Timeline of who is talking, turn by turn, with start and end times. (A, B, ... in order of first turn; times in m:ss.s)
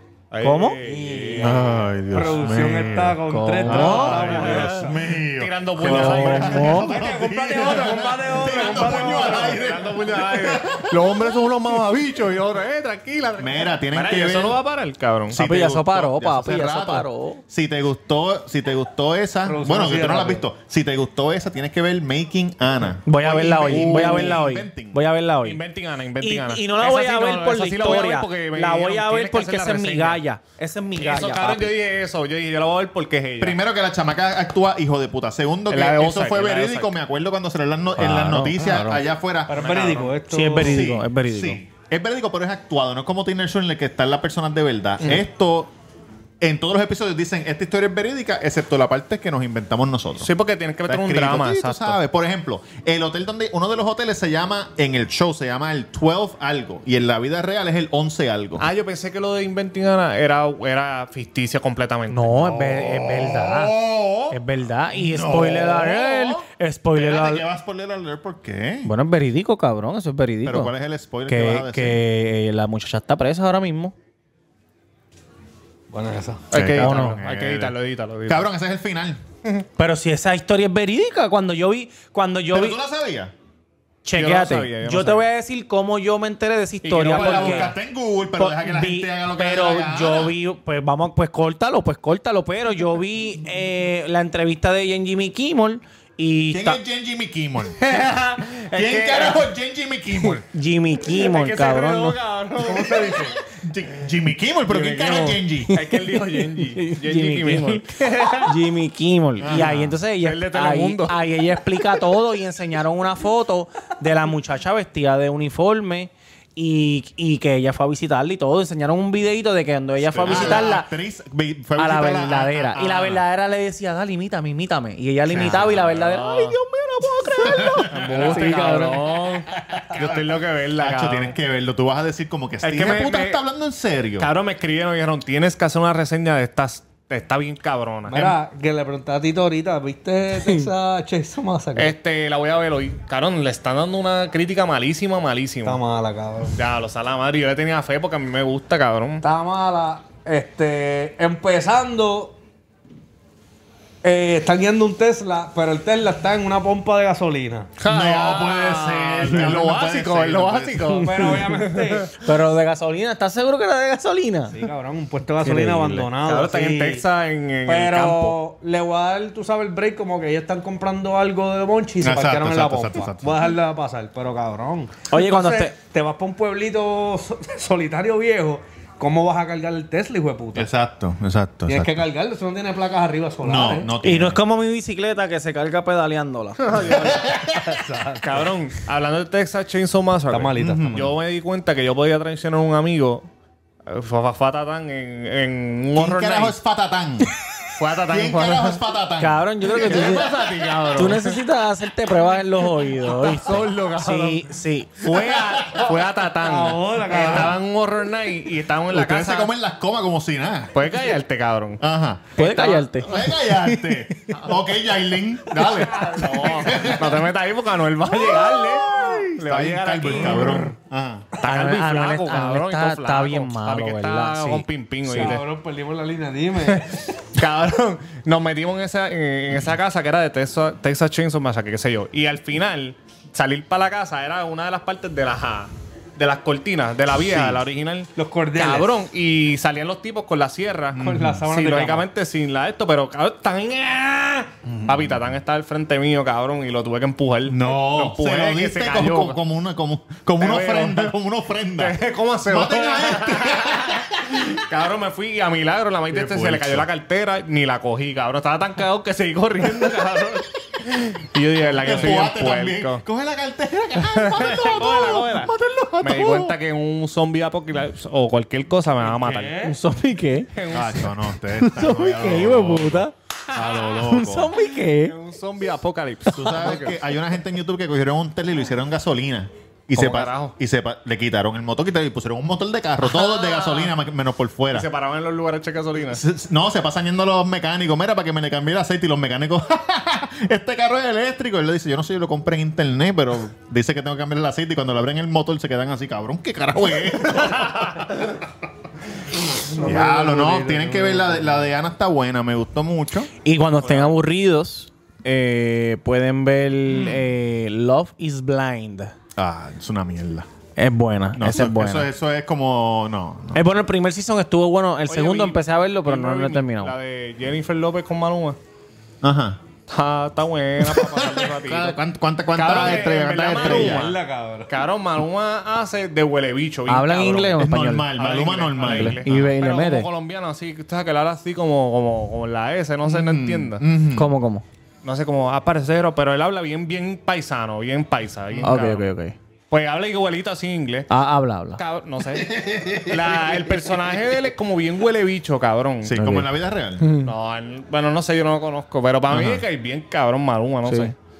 0:00.3-0:01.8 A
0:00.4-0:00.8 B
0:00.8-0:04.9 C
0:01.4-0:11.6 D
0:03.3-0:04.4 B
0:03.7-0:06.8 A
0:05.8-0:06.9 B
0:06.7-0:09.7 C
0:08.4-0:15.4 A
0:13.4-0:14.6 D
0:15.3-0:25.0 D
0:15.3-0:17.4 B
0:19.4-0:20.4 C
0:23.0-0:25.6 B
0:23.7-0:24.4 A
0:25.4-0:30.2 A
0:26.2-0:31.7 B
0:31.0-0:33.6 A
0:33.4-0:39.6 D
0:35.7-0:36.9 A
0:38.0-0:39.0 B
0:39.5-0:40.8 C
0:39.5-0:40.2 A
0:40.3-0:41.6 B
0:40.6-0:45.7 D
0:46.4-0:50.3 D
0:50.2-0:52.0 A
0:50.8-0:58.7 D
0:58.6-1:02.7 A
1:02.1-1:03.7 B
1:02.4-1:08.9 D
1:04.3-1:07.4 B
1:08.8-1:10.7 B
1:10.4-1:12.0 D
1:11.3-1:13.9 B
1:15.9-1:16.4 C
1:16.5-1:17.8 D
1:16.5-1:18.5 A
1:16.8-1:17.2 B
1:18.3-1:19.2 D
1:19.8-1:22.8 B
1:22.5-1:23.3 D
1:24.0-1:27.7 B
1:24.1-1:25.2 A
1:26.8-1:27.7 A
1:27.0-1:30.3 D
1:28.4-1:36.8 B
1:36.5-1:40.4 D
1:37.8-1:39.5 A
1:40.4-1:42.2 B
1:41.0-1:43.3 A
1:42.7-1:45.8 D
1:42.8-1:43.3 C
1:44.7-1:48.6 A
1:45.9-2:00.9 B
1:49.4-1:49.9 D
1:49.4-1:51.3 A
2:00.0-2:00.7 A
2:00.2-2:03.2 D
2:01.8-2:09.5 B
2:05.2-2:05.8 D
2:05.3-2:06.6 A
2:07.3-2:08.4 D
2:07.9-2:09.3 A
2:09.6-2:14.3 D
2:09.9-2:11.4 A
2:12.6-2:13.4 A
2:14.2-2:18.4 A
2:18.1-2:21.9 C
2:21.7-2:25.8 A
2:25.6-2:26.5 C
2:26.5-2:29.2 A
2:29.2-2:32.4 C
2:34.0-2:37.7 C
2:37.8-2:42.1 A
2:37.9-2:41.0 D
2:41.0-2:42.1 C
2:42.2-2:44.6 B
2:44.5-2:47.0 C
2:45.4-2:46.1 B
2:46.2-2:48.4 A
2:47.6-3:00.7 C
2:52.0-2:53.5 D
2:55.1-2:55.7 B
3:00.5-3:02.1 D
3:01.6-3:03.9 C
3:03.4-3:04.4 D
3:04.0-3:06.6 B
3:06.6-3:07.3 A
3:06.9-3:08.4 C
3:07.0-3:07.8 D
3:08.2-3:13.2 A
3:10.3-3:11.1 C
3:10.6-3:11.1 D
3:13.8-3:16.5 A
3:16.0-3:17.3 D
3:17.7-3:18.8 A
3:18.0-3:19.5 D
3:19.2-3:20.3 B
3:19.7-3:21.4 A
3:20.9-3:25.3 B
3:23.0-3:24.5 A
3:25.0-3:29.5 A
3:25.2-3:25.8 D
3:26.4-3:27.6 C
3:28.9-3:30.9 D
3:30.7-3:31.8 A
3:31.8-3:32.3 D
3:32.4-3:33.0 A
3:32.4-3:33.1 B
3:33.0-3:37.3 D
3:35.9-3:40.7 A
3:38.1-3:41.3 D
3:41.4-3:45.5 A
3:41.4-3:45.3 B
3:45.1-3:47.1 C
3:46.6-4:09.4 A
3:57.2-3:57.6 D
3:58.2-3:58.9 C
4:00.9-4:01.4 D
4:01.0-4:02.1 C
4:04.6-4:05.2 D
4:07.4-4:14.6 D
4:10.4-4:11.1 A
4:11.8-4:23.0 A
4:16.1-4:16.9 D
4:21.7-4:26.6 D
4:24.0-4:29.6 A
4:29.0-4:29.8 C
4:29.6-4:30.5 B
4:30.5-4:31.1 A
4:30.7-4:34.5 D
4:31.5-4:33.1 B
4:33.9-4:35.1 B
4:35.0-4:37.0 A
4:36.3-4:44.9 D
4:39.9-4:40.5 A
4:43.0-4:43.9 A
4:44.7-4:46.2 A
4:46.1-4:58.4 D
4:59.6-5:01.6 C
4:59.8-5:03.3 D
5:03.4-5:09.1 B
5:03.8-5:04.1 A
5:09.4-5:10.5 D
5:10.8-5:12.1 B
5:11.4-5:13.6 D
5:13.5-5:16.9 B
5:15.1-5:18.6 A
5:19.2-5:19.6 D
5:19.9-5:22.0 A
5:20.8-5:24.1 D
5:22.5-5:27.6 A
5:23.5-5:24.7 C
5:26.9-5:28.1 B
5:27.6-5:29.5 D
5:28.1-5:33.8 A
5:28.8-5:30.1 B
5:33.0-5:34.3 D
5:34.1-5:34.6 B
5:35.0-5:39.0 A
5:38.5-5:38.8 D
5:38.6-5:39.4 B
5:39.7-5:41.1 A
5:41.1-5:41.8 B
5:41.8-5:46.4 A
5:42.3-5:43.9 D
5:46.0-5:47.0 D
5:47.0-5:47.3 B
5:47.2-5:51.1 A
5:49.3-5:49.6 D
5:50.8-5:51.1 B